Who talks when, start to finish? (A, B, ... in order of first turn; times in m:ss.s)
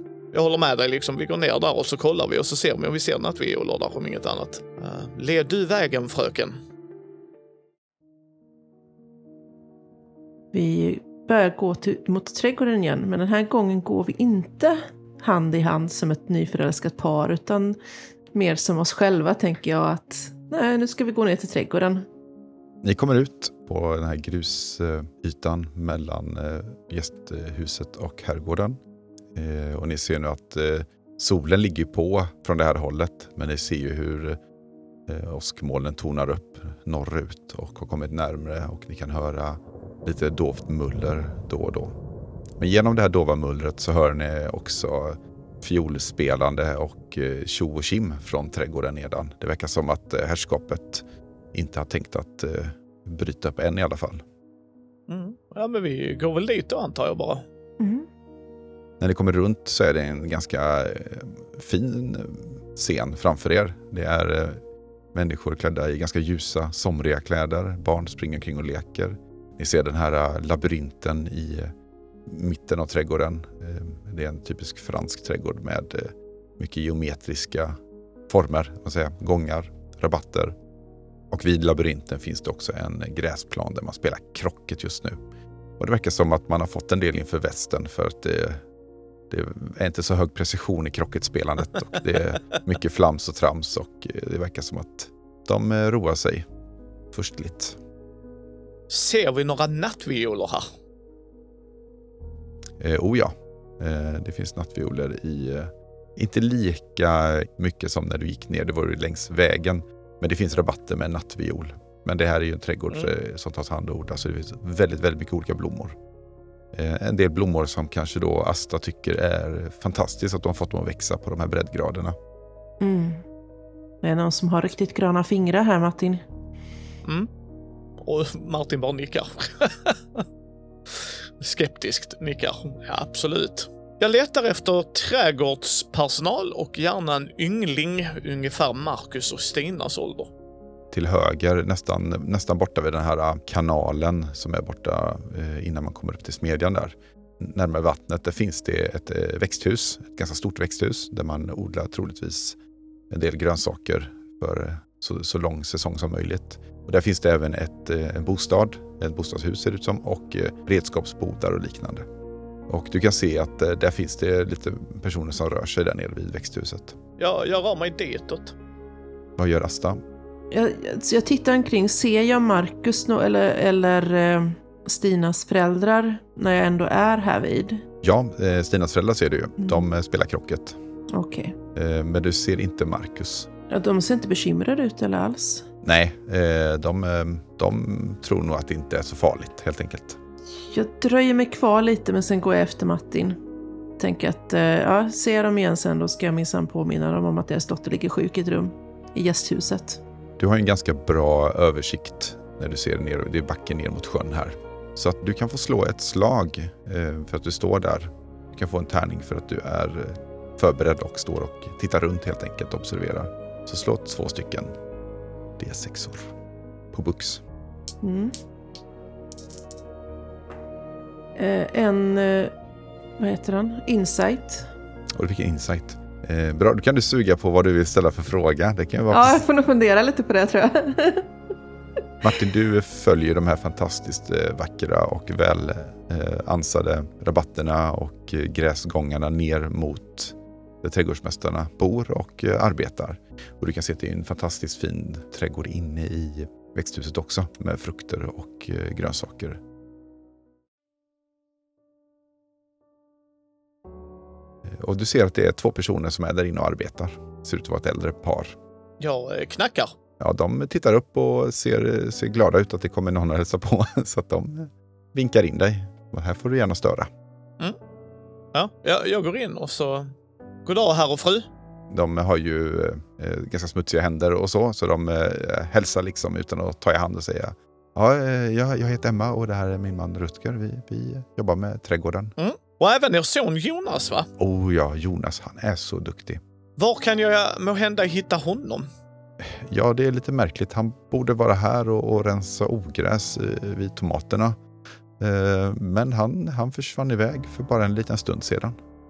0:00.3-0:06.6 A
0:10.5-0:17.8 B
0:18.3-0:22.1 B
0:22.8-0:28.8 C
0:29.4-0:34.4 C
0:35.1-0:42.0 C
0:42.6-0:54.2 C
0:55.1-0:57.4 A
0:57.8-0:58.1 B
0:59.0-1:04.6 C
1:05.1-1:11.7 C
1:12.3-1:20.6 C
1:21.3-1:25.2 C
1:25.8-1:28.6 C
1:29.3-1:36.5 C
1:37.1-1:37.8 C
1:38.9-1:40.7 A
1:42.8-1:56.0 C
1:56.7-2:02.2 C
2:02.8-2:03.2 B
2:04.0-2:06.2 B
2:08.0-2:10.2 A
2:10.9-2:20.3 A
2:20.9-2:32.6 C
2:33.1-2:42.1 C
2:42.7-2:47.0 C
2:47.2-2:48.6 A
2:49.4-2:50.0 C
2:50.5-2:57.8 B
2:58.0-3:00.8 C
2:59.6-2:59.9 B
3:01.1-3:01.6 B
3:01.8-3:03.5 C
3:03.7-3:05.7 B
3:05.8-3:10.2 C
3:10.7-3:13.4 B
3:14.0-3:20.0 B
3:20.4-3:34.7 C
3:35.6-3:36.3 C
3:36.9-3:37.4 C
3:38.0-3:38.4 B
3:41.4-3:42.5 B
3:43.2-3:44.7 B
3:45.2-3:49.4 C
3:49.1-3:51.3 B
3:52.2-4:09.6 C
4:14.6-4:18.6 C
4:19.0-4:19.9 A
4:20.2-4:27.1 C
4:28.5-4:30.1 A
4:30.7-4:31.5 A
4:31.9-4:42.3 C
4:42.4-4:44.3 A
4:44.4-4:46.4 C
4:46.8-4:48.9 A
4:49.4-4:54.6 C
4:55.2-4:58.8 C